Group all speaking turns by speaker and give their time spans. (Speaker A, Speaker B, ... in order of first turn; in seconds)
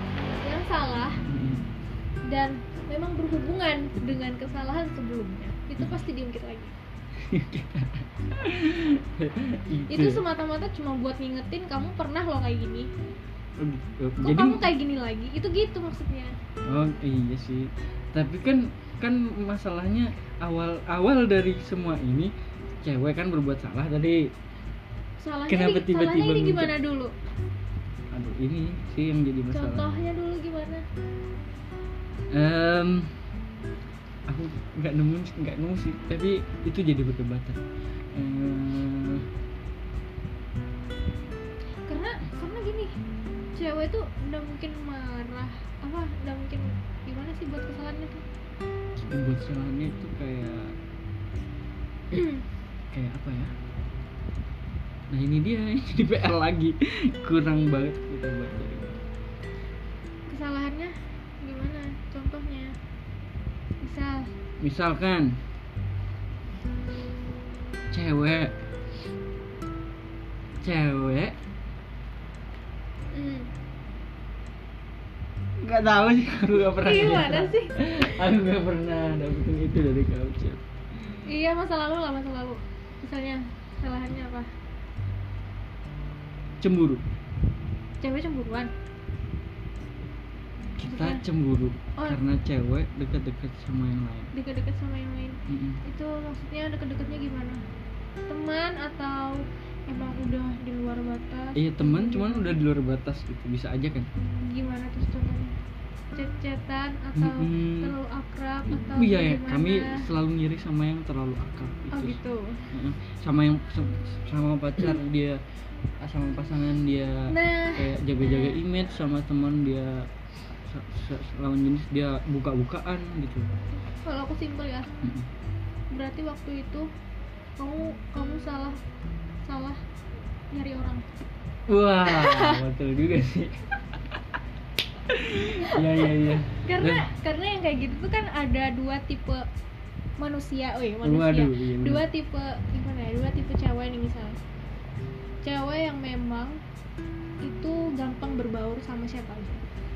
Speaker A: 0.3-1.2, 2.2-6.7, 9.9-12.9, 14.2-16.3, 25.2-27.1, 29.5-30.8, 41.9-42.9, 43.5-48.2, 52.1-52.4, 60.3-62.7, 63.8-64.3, 73.1-73.5, 76.8-78.2, 81.2-84.5, 88.0-88.7, 90.8-91.2, 94.3-97.6, 98.3-102.5, 104.4-105.5, 106.1-110.1, 111.9-112.7, 117.3-118.6, 124.0-124.9, 125.9-126.9, 127.6-128.8, 129.4-129.8, 130.5-131.1, 132.1-132.6, 136.6-139.4, 140.2-144.4, 145.4-146.6, 147.4-149.6
Speaker B: 1.3-1.6, 7.2-10.2, 13.6-14.7, 16.6-24.3, 25.5-26.7, 28.1-29.8, 32.3-33.2, 34.3-37.6, 38.1-39.3, 49.0-50.8, 52.9-53.5, 55.1-59.0, 64.6-65.4, 67.9-68.5, 70.6-71.3, 75.6-81.2, 86.6-87.0, 90.8-94.3, 95.5-95.8, 101.5-104.1, 107.2-107.9, 108.7-112.2, 112.7-115.4, 116.0-123.5, 125.0-125.3, 131.7-134.2, 135.0-137.1, 141.0-142.1